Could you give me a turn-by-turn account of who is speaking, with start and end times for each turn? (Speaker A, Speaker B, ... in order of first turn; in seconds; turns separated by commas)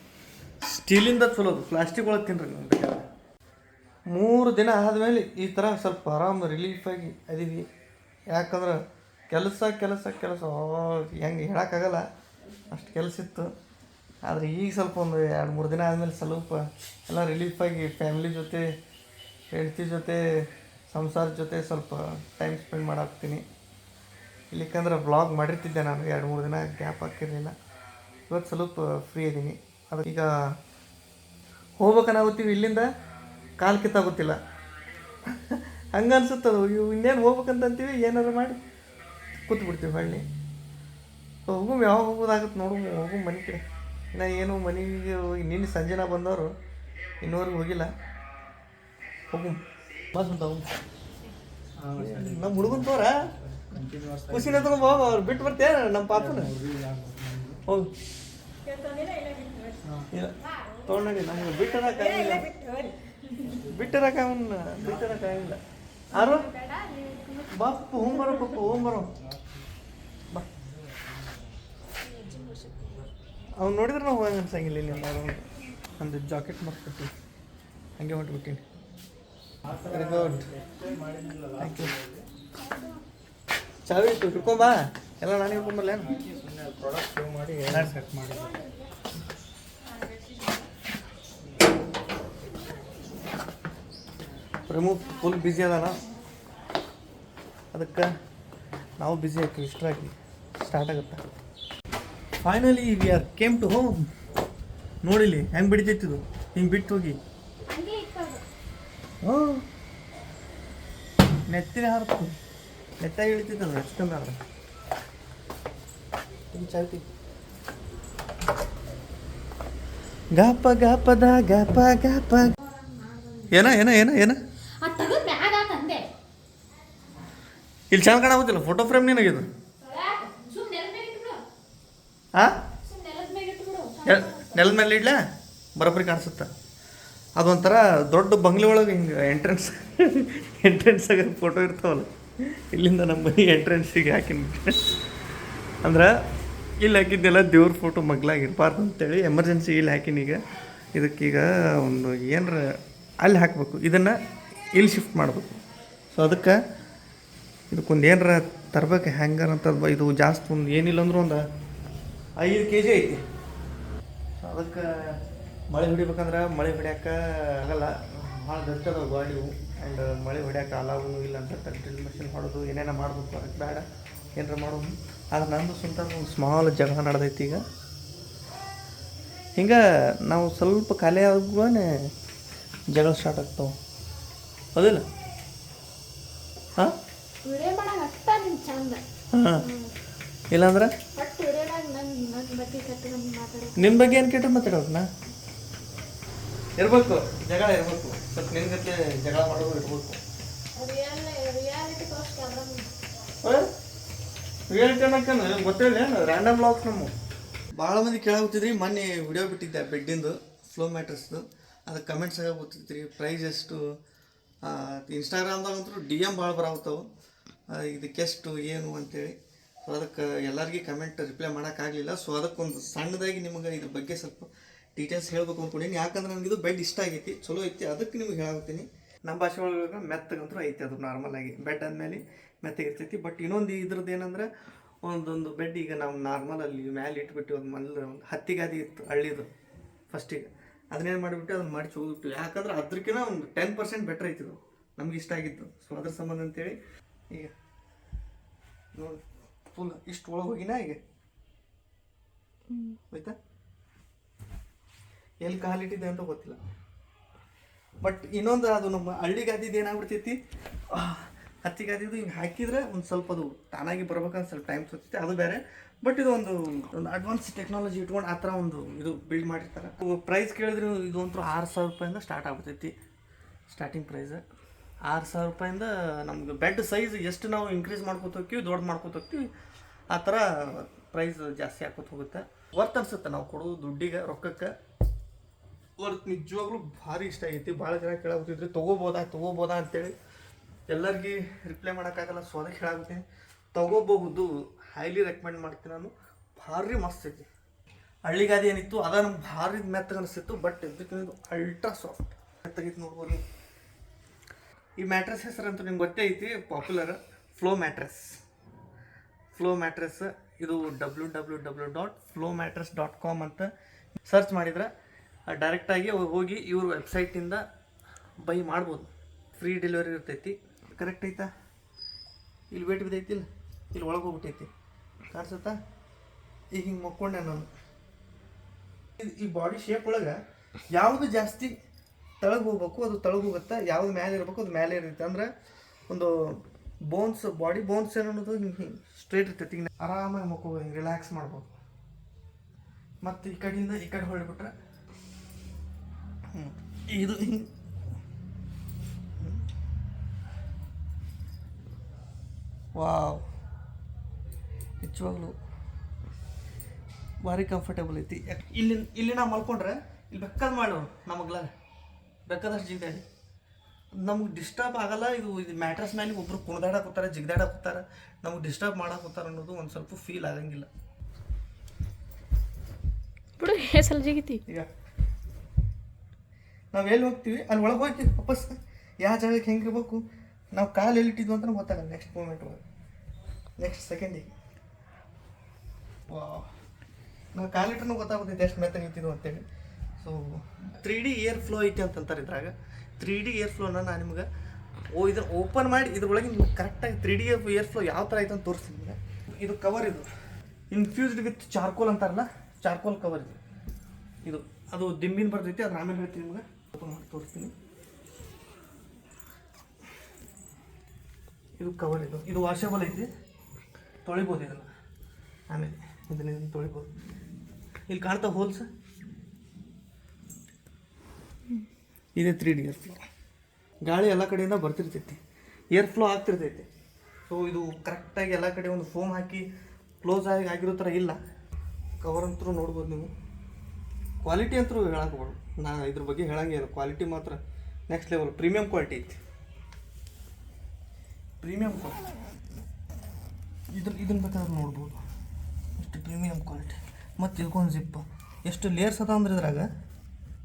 Speaker A: 0.6-3.0, Speaker A: 4.1-7.7, Speaker A: 8.3-12.0, Speaker A: 12.7-13.5, Speaker A: 14.2-18.7, Speaker A: 19.5-20.2, Speaker A: 20.9-23.4, Speaker A: 24.5-27.5, Speaker A: 28.3-30.3, Speaker A: 31.8-32.9, Speaker A: 33.6-34.4, Speaker A: 35.3-38.6, Speaker A: 39.5-40.2, Speaker A: 41.5-43.6, Speaker A: 44.1-46.5, Speaker A: 47.2-47.9, Speaker A: 49.3-49.6, Speaker A: 50.1-50.7, Speaker B: 51.8-52.9, Speaker A: 51.9-53.3, Speaker B: 53.5-54.8, Speaker A: 54.3-56.5, Speaker B: 56.4-57.6, Speaker A: 57.6-57.9, Speaker C: 58.9-59.6, Speaker A: 60.1-62.5, Speaker C: 62.3-63.0, Speaker A: 63.4-65.6, Speaker A: 66.1-66.5, Speaker C: 66.2-67.5, Speaker A: 67.5-69.1, Speaker C: 72.0-73.0, Speaker A: 73.6-77.1, Speaker A: 78.0-78.6, Speaker B: 79.7-82.2, Speaker A: 79.8-80.5, Speaker A: 81.6-82.0, Speaker A: 83.8-86.2, Speaker B: 86.1-88.6, Speaker A: 87.7-88.0, Speaker A: 94.7-96.0, Speaker A: 97.7-98.1, Speaker A: 99.0-101.2, Speaker A: 102.4-104.0, Speaker A: 105.0-107.2, Speaker C: 107.7-108.4, Speaker A: 109.2-109.6, Speaker A: 111.5-112.4, Speaker A: 113.0-114.4, Speaker A: 116.5-117.0, Speaker A: 120.3-122.5, Speaker C: 122.6-123.5, Speaker A: 123.5-124.4, Speaker C: 124.8-126.0, Speaker A: 127.9-129.5, Speaker C: 129.8-131.4, Speaker C: 132.8-134.8, Speaker A: 134.0-135.2, Speaker A: 135.8-136.5, Speaker A: 137.4-144.9, Speaker A: 145.8-146.1, Speaker A: 146.8-150.4, Speaker A: 150.9-154.1, Speaker A: 154.7-155.6, Speaker A: 156.1-156.6, Speaker A: 157.7-161.4, Speaker A: 162.4-163.2, Speaker A: 164.4-177.6, Speaker A: 179.6-182.1, Speaker A: 182.9-183.7, Speaker A: 184.7-185.0, Speaker C: 187.4-189.0, Speaker A: 189.3-189.6, Speaker C: 189.5-189.9, Speaker A: 190.5-190.9, Speaker C: 191.2-194.0, Speaker A: 193.8-195.1, Speaker A: 196.8-200.2, Speaker C: 200.8-202.9, Speaker A: 203.4-203.7, Speaker A: 204.7-207.1, Speaker A: 207.7-213.8, Speaker A: 214.6-217.0, Speaker A: 217.7-234.5, Speaker A: 235.0-239.5, Speaker A: 240.1-246.8, Speaker A: 248.9-251.0, Speaker C: 252.7-253.0, Speaker A: 253.1-253.3, Speaker A: 255.4-256.6, Speaker A: 258.0-260.4, Speaker A: 260.9-272.9, Speaker A: 273.7-274.4, Speaker A: 275.1-279.5, Speaker A: 280.1-284.7, Speaker A: 286.0-290.1, Speaker A: 290.9-297.5, Speaker A: 298.2-303.4, Speaker A: 305.0-308.4, Speaker A: 309.5-313.7, Speaker A: 314.2-314.9, Speaker A: 315.5-317.6, Speaker A: 318.4-321.5, Speaker A: 322.7-324.7, Speaker A: 325.3-325.8, Speaker A: 326.7-327.7, Speaker A: 329.2-330.4, Speaker A: 330.9-331.7, Speaker A: 332.4-335.5, Speaker A: 336.1-341.7, Speaker A: 343.2-344.7, Speaker A: 346.5-347.7, Speaker A: 352.9-353.4, Speaker A: 355.0-355.6, Speaker A: 357.4-361.7, Speaker A: 362.5-363.2, Speaker A: 364.2-370.9, Speaker C: 373.6-374.6, Speaker A: 376.9-380.2, Speaker A: 380.7-382.8, Speaker A: 383.8-384.5, Speaker A: 386.3-386.7, Speaker A: 387.5-389.6, Speaker A: 390.2-394.5, Speaker A: 395.1-400.3, Speaker A: 400.9-403.6, Speaker A: 404.4-407.7, Speaker A: 411.8-413.3, Speaker A: 414.2-414.9, Speaker A: 415.7-417.1, Speaker A: 418.1-418.9, Speaker A: 422.3-423.2, Speaker A: 424.0-425.4, Speaker A: 425.9-426.9, Speaker A: 427.5-429.6, Speaker A: 430.2-431.4, Speaker A: 432.2-433.3, Speaker A: 434.4-439.4, Speaker A: 441.6-442.3, Speaker A: 443.9-445.2, Speaker A: 446.0-449.9